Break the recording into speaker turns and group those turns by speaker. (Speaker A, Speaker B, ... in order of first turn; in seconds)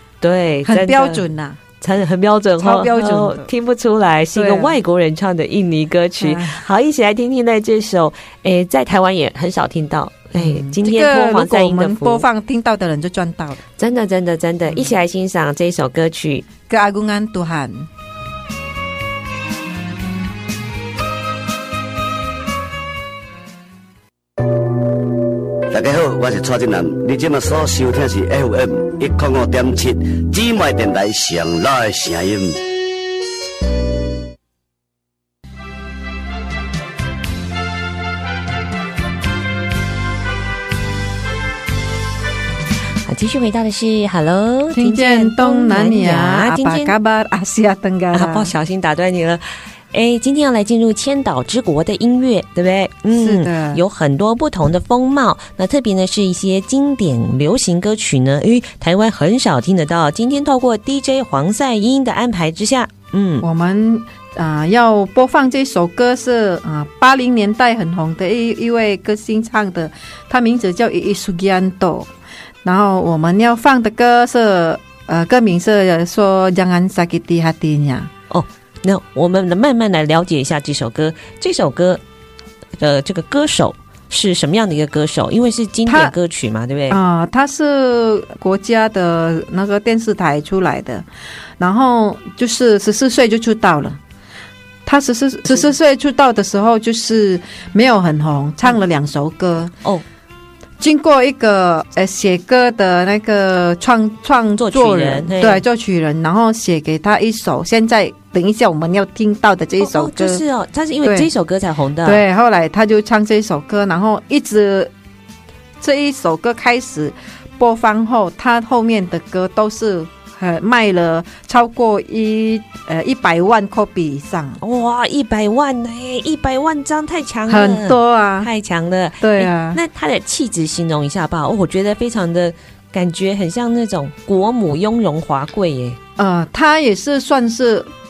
Speaker A: 0.2-1.2, 1.8-12.2, 13.8-16.4, 43.1-47.0, 48.1-63.5, 78.3-82.0, 82.8-87.0, 104.6-105.6, 109.8-112.2, 124.6-136.0
Speaker B: 0.7-1.6, 2.6-3.5, 4.3-4.8, 6.2-6.6, 10.3-13.6, 16.7-17.9, 44.7-48.5, 53.1-53.8, 63.4-72.1, 72.6-78.1, 85.9-86.2, 86.9-91.1, 91.6-94.0, 94.9-99.8, 100.8-110.4, 111.0-111.3, 112.0-114.9, 115.8-124.6, 127.5-128.5, 129.2-129.8, 136.2-137.9
Speaker C: 25.7-32.6